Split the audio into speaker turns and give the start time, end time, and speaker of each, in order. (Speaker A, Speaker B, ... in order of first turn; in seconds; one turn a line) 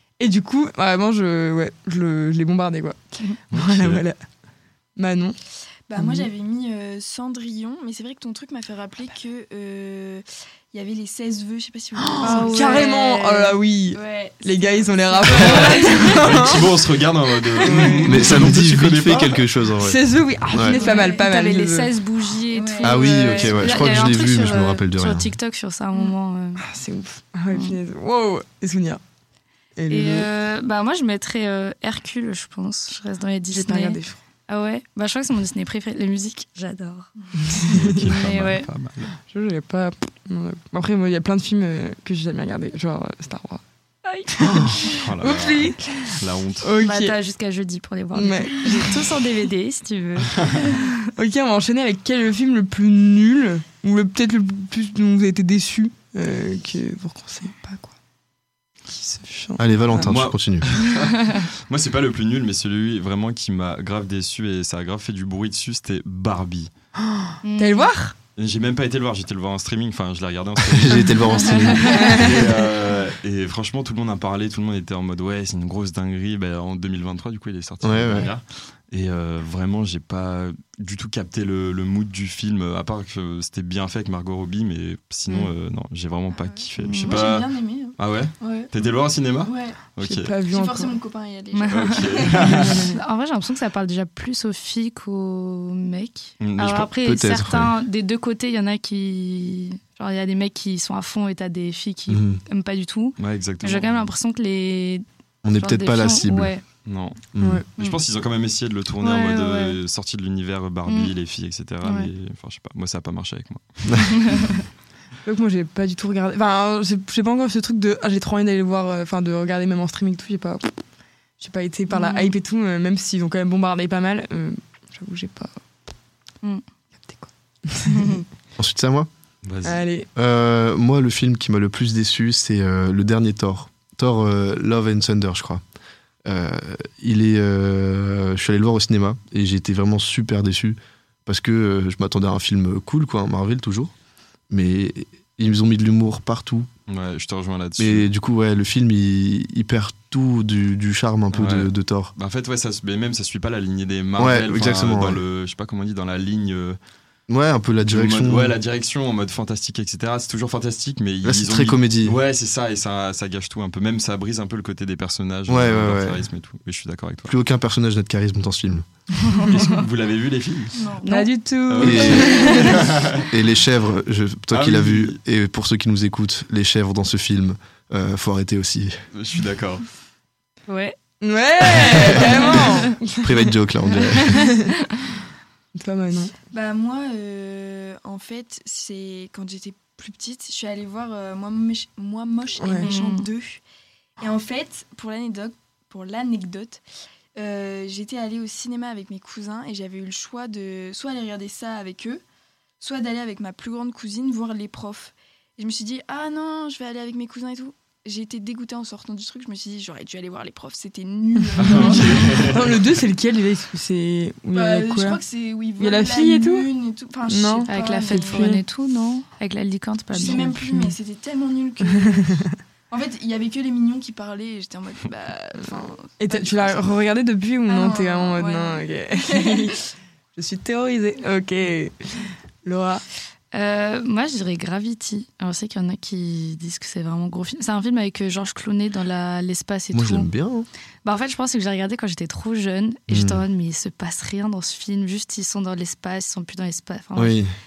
Speaker A: 0.2-4.2
Speaker B: 3.5-4.0
Speaker A: 5.0-5.4
Speaker C: 5.9-12.9
Speaker A: 6.0-6.3
Speaker A: 12.0-16.7
Speaker D: 12.2-13.5
Speaker C: 13.9-16.2
Speaker D: 15.4-16.1
Speaker B: 16.1-19.4
Speaker A: 17.6-18.4
Speaker E: 18.1-20.8
Speaker A: 19.8-21.9
Speaker D: 20.7-26.6
Speaker C: 20.8-21.3
Speaker C: 22.5-24.1
Speaker E: 22.8-25.3
Speaker A: 26.0-29.0
Speaker D: 27.5-27.8
Speaker A: 29.8-30.3
Speaker D: 29.9-38.7
Speaker A: 33.5-34.2
Speaker A: 37.5-37.9
Speaker B: 37.7-39.1
Speaker A: 39.3-43.6
Speaker D: 44.0-45.0
Speaker A: 44.4-47.2
Speaker B: 45.0-46.7
Speaker D: 46.8-51.1
Speaker A: 48.1-49.0
Speaker A: 51.2-57.9
Speaker A: 58.9-60.1
Speaker E: 59.6-60.8
Speaker B: 60.0-66.7
Speaker A: 67.0-68.2
Speaker D: 67.4-67.9
Speaker B: 68.4-71.3
Speaker E: 70.6-72.5
Speaker D: 71.5-71.9
Speaker B: 72.0-90.3
Speaker E: 77.8-78.3
Speaker C: 86.3-88.7
Speaker D: 86.8-87.3
Speaker C: 89.4-89.8
Speaker A: 90.0-91.0
Speaker C: 90.5-92.7
Speaker D: 91.5-92.3
Speaker B: 91.7-92.8
Speaker A: 92.4-93.0
Speaker D: 92.9-106.6
Speaker B: 96.4-96.9
Speaker E: 97.0-97.7
Speaker E: 102.1-102.4
Speaker B: 103.2-104.1
Speaker E: 105.4-106.5
Speaker B: 106.9-107.2
Speaker E: 107.3-107.6
Speaker B: 107.8-114.5
Speaker D: 109.0-109.8
Speaker D: 110.9-111.1
Speaker D: 111.8-112.1
Speaker D: 114.1-114.6
Speaker A: 115.2-120.8
Speaker A: 121.4-125.6
Speaker D: 121.9-122.4
Speaker A: 127.0-128.2
Speaker D: 127.9-128.2
Speaker E: 128.6-129.1
Speaker B: 129.4-129.8
Speaker A: 129.7-130.1
Speaker E: 130.2-135.6
Speaker E: 136.3-143.9
Speaker E: 144.5-146.7
Speaker B: 146.9-148.1
Speaker E: 147.8-152.1
Speaker B: 151.3-156.8
Speaker E: 154.2-155.2
Speaker E: 157.3-158.6
Speaker B: 157.8-167.3
Speaker E: 161.2-162.2
Speaker E: 165.5-166.2
Speaker E: 167.3-168.8
Speaker D: 169.3-169.8
Speaker B: 169.5-170.8
Speaker C: 170.8-171.1
Speaker D: 171.0-171.4
Speaker A: 171.1-172.8
Speaker B: 171.7-173.3
Speaker E: 171.8-172.4
Speaker D: 172.2-172.7
Speaker E: 173.3-179.0
Speaker B: 174.5-175.2
Speaker B: 179.1-179.8
Speaker D: 180.7-181.0
Speaker A: 181.2-183.2
Speaker D: 182.4-182.9
Speaker E: 183.2-184.4
Speaker A: 184.2-184.7
Speaker A: 185.8-186.3
Speaker C: 186.5-193.6
Speaker A: 192.6-192.9
Speaker D: 192.8-193.3
Speaker C: 194.2-196.8
Speaker C: 197.4-202.2
Speaker C: 202.8-212.6
Speaker B: 211.6-212.6
Speaker A: 211.6-215.2
Speaker C: 214.5-218.6
Speaker A: 215.8-216.7
Speaker A: 217.3-218.6
Speaker D: 217.7-220.6
Speaker C: 220.1-227.0
Speaker A: 220.2-220.9
Speaker A: 226.2-229.8
Speaker C: 227.7-229.7
Speaker A: 230.4-233.0
Speaker D: 233.5-240.3
Speaker E: 239.9-240.7
Speaker D: 241.0-247.4
Speaker E: 243.1-243.4
Speaker E: 247.2-247.5